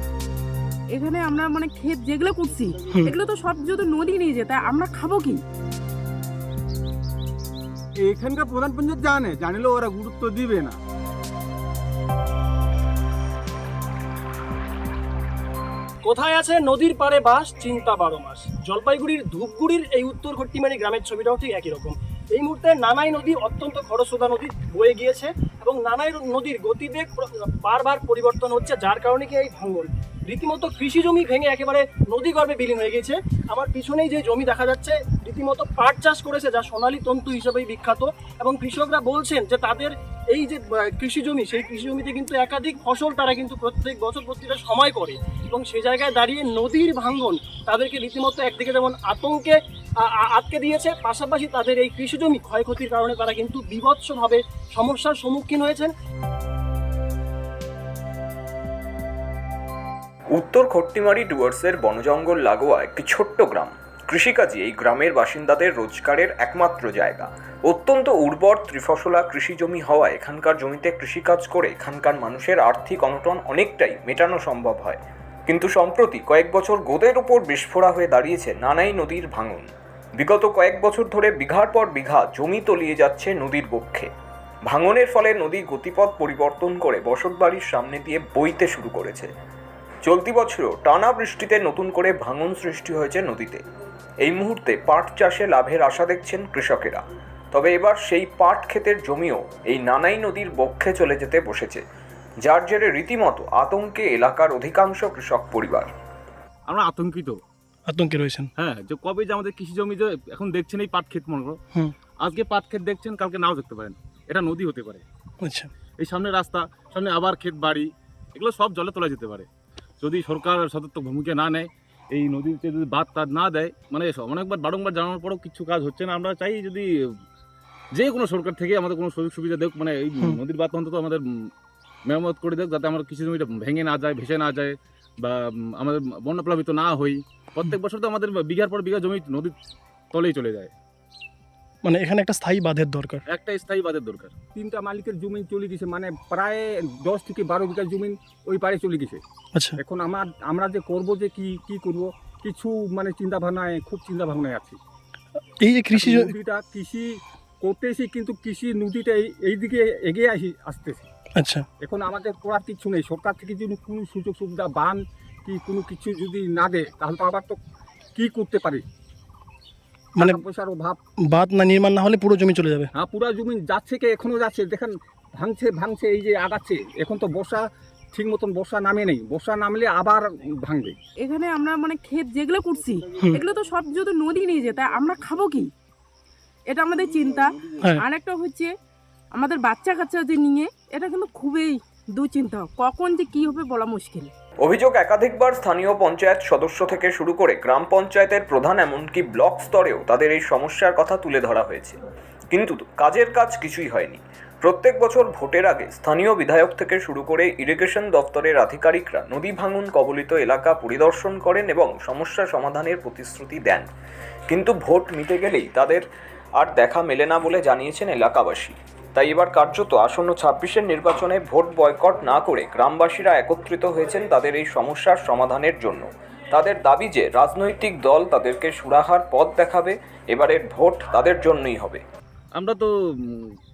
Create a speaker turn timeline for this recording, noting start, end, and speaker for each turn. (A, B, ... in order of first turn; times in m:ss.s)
0:00.9-0:05.4 A
0:08.0-0:10.8 B
0:16.0-0:55.9 C
1:00.3-1:24.1 D
1:24.7-1:29.3 D
1:30.0-1:33.6 D
1:34.2-1:41.8 D
1:42.4-1:45.9 D
1:46.7-1:47.4 E
1:47.9-1:48.5 F
1:48.6-1:51.6 E
1:52.2-1:55.0 E
1:55.4-1:55.7 F
1:56.0-1:59.5 E
2:00.0-2:07.1 E
2:07.9-2:11.2 E
2:12.1-2:19.6 E
2:20.1-2:20.7 E
2:21.8-2:23.2 F
2:23.3-2:24.4 E
2:24.5-2:29.2 B
2:29.6-2:29.8 F
2:29.8-2:34.8 B
2:35.6-2:36.4 F
2:35.9-2:41.1 B
2:41.4-2:41.7 F
2:41.8-2:47.6 B
2:48.2-2:48.8 B
2:50.2-2:50.4 F
2:50.2-2:51.0 B
2:51.3-2:52.9 F
2:53.0-3:01.0 B
3:01.2-3:05.7 A
3:06.7-3:08.7 A
3:09.3-3:14.3 A
3:14.6-3:22.0 D
3:22.5-3:33.9 D
3:34.5-3:36.0 D
3:36.6-3:52.0 D
3:52.5-3:53.6 E